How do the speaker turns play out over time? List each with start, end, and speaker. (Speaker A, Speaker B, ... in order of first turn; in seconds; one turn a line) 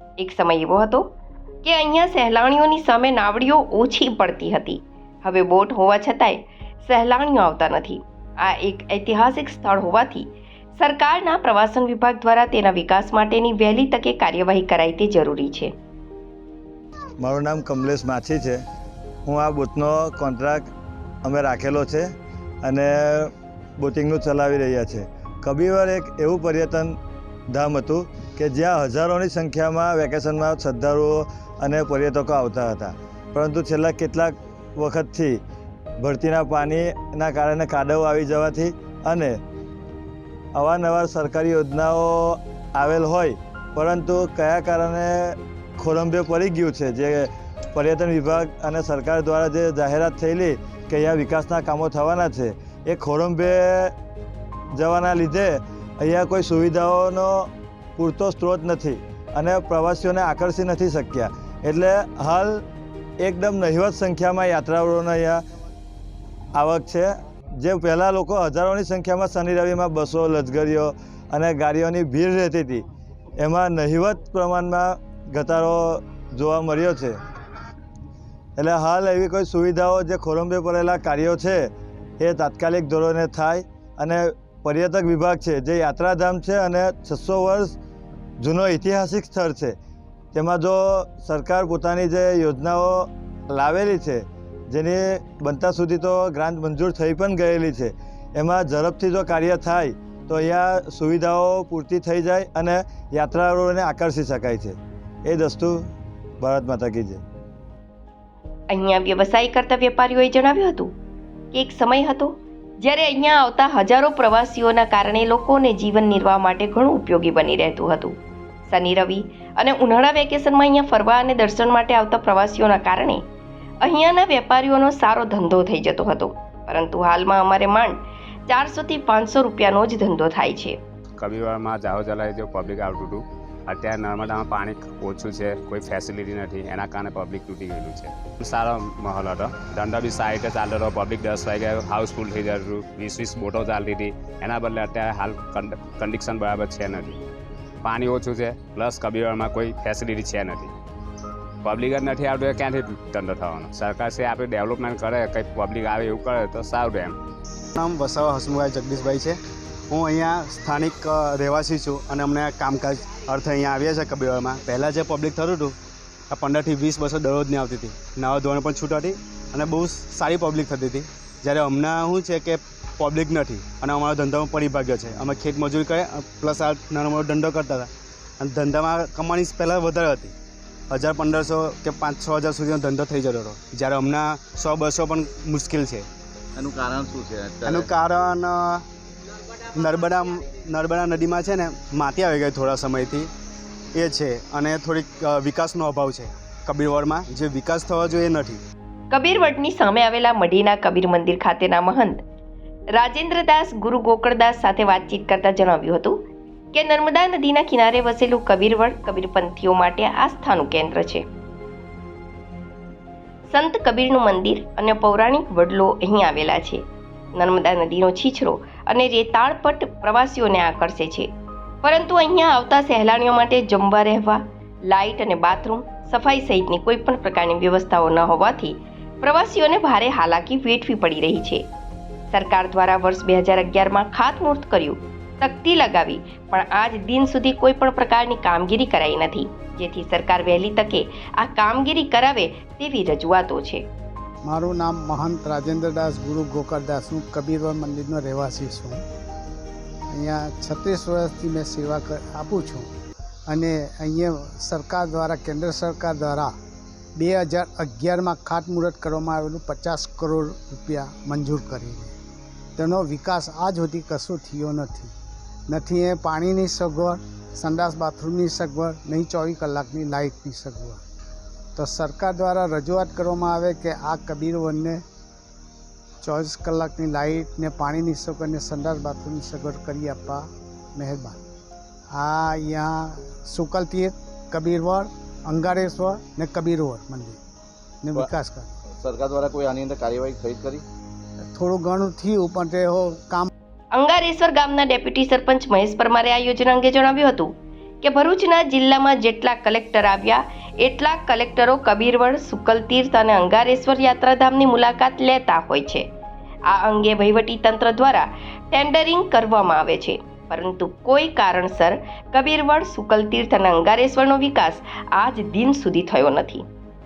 Speaker A: 0.2-1.1
Speaker A: 1.6-15.7
Speaker B: 17.2-18.6
Speaker B: 19.3-20.6
Speaker B: 21.2-22.1
Speaker B: 22.6-27.0
Speaker B: 27.5-35.4
Speaker B: 36.0-39.3
Speaker B: 40.6-53.9
Speaker B: 54.8-57.5
Speaker B: 58.0-62.6
Speaker B: 63.2-65.4
Speaker B: 66.6-67.1
Speaker B: 67.6-72.8
Speaker B: 73.4-77.2
Speaker B: 78.6-81.6
Speaker B: 82.2-87.8
Speaker B: 88.4-89.8
Speaker B: 90.3-105.8
Speaker B: 106.4-107.2
Speaker A: 108.7-110.9
Speaker A: 111.5-118.2
Speaker A: 118.7-123.2
Speaker A: 123.8-130.8
Speaker C: 131.2-147.2
Speaker C: 147.8-150.7
Speaker C: 151.6-157.2
Speaker D: 157.8-159.4
Speaker D: 159.9-165.8
Speaker D: 166.3-177.9
Speaker D: 178.4-180.3
Speaker D: 180.9-186.1
Speaker E: 186.5-187.9
Speaker D: 187.7-188.8
Speaker D: 189.7-193.3
Speaker D: 193.9-198.6
Speaker A: 199.1-202.2
Speaker A: 203.0-206.2
Speaker A: 206.7-211.2
Speaker A: 213.5-216.8
Speaker A: 217.3-221.3
Speaker A: 221.8-231.6
Speaker A: 232.3-243.8
Speaker F: 244.4-249.0
Speaker F: 250.1-252.9
Speaker F: 253.5-256.5
Speaker F: 257.1-262.1
Speaker F: 262.8-265.1
Speaker F: 265.7-271.0
Speaker F: 271.8-275.0
Speaker F: 276.2-281.4
Speaker F: 282.1-287.4
Speaker F: 288.0-288.7
Speaker E: 289.0-290.9
Speaker F: 291.5-293.5
Speaker A: 293.9-306.1
Speaker A: 306.7-316.6